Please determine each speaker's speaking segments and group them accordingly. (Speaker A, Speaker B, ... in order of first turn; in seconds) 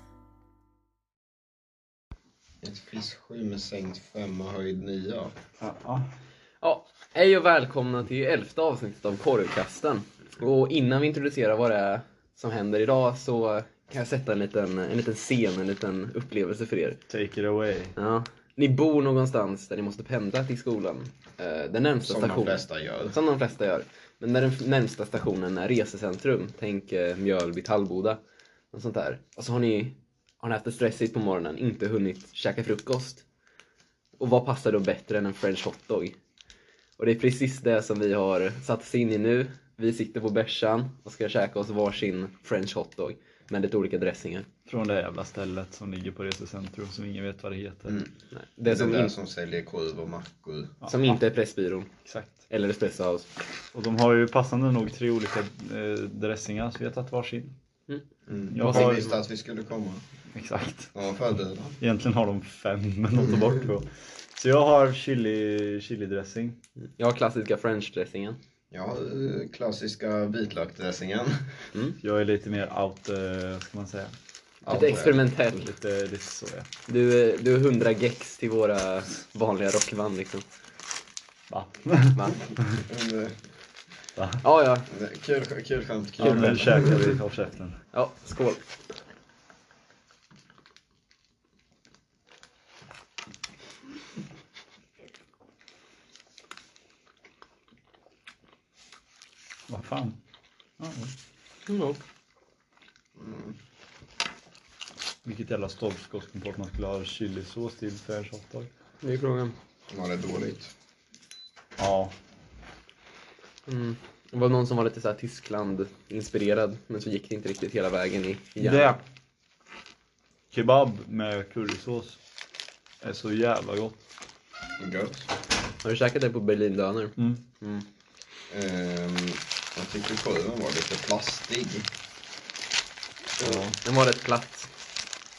Speaker A: 2.6-5.3, 22.1-23.1, 48.6-50.8, 58.3-60.0, 60.9-61.8, 68.7-71.5, 74.6-75.2, 82.9-83.3, 84.9-86.9, 103.2-103.5, 109.9-110.7, 124.8-125.3, 128.5-131.9
Speaker B: 5.6-6.0, 17.1-17.9, 44.7-48.0, 52.0-52.4, 53.7-57.5, 58.5-59.0, 60.3-60.9, 61.8-66.6, 72.0-74.1, 75.5-76.7, 81.5-82.2, 84.2-84.4, 86.2-87.8, 99.7-100.2, 100.8-101.1, 105.2-108.7, 111.8-112.1, 118.6-119.0, 120.5-122.2, 123.0-124.0, 133.4-133.8
Speaker C: 6.6-17.0, 17.9-28.2, 28.7-33.2, 34.2-36.1, 37.0-44.5, 48.3-49.1, 50.9-51.9, 52.5-53.3, 58.6-59.1, 67.0-68.4, 74.7-75.7, 76.9-80.4, 84.4-84.8, 86.2-86.9, 87.9-88.6, 101.7-102.0, 109.0-109.5, 113.7-118.9, 125.8-127.8, 133.4-134.7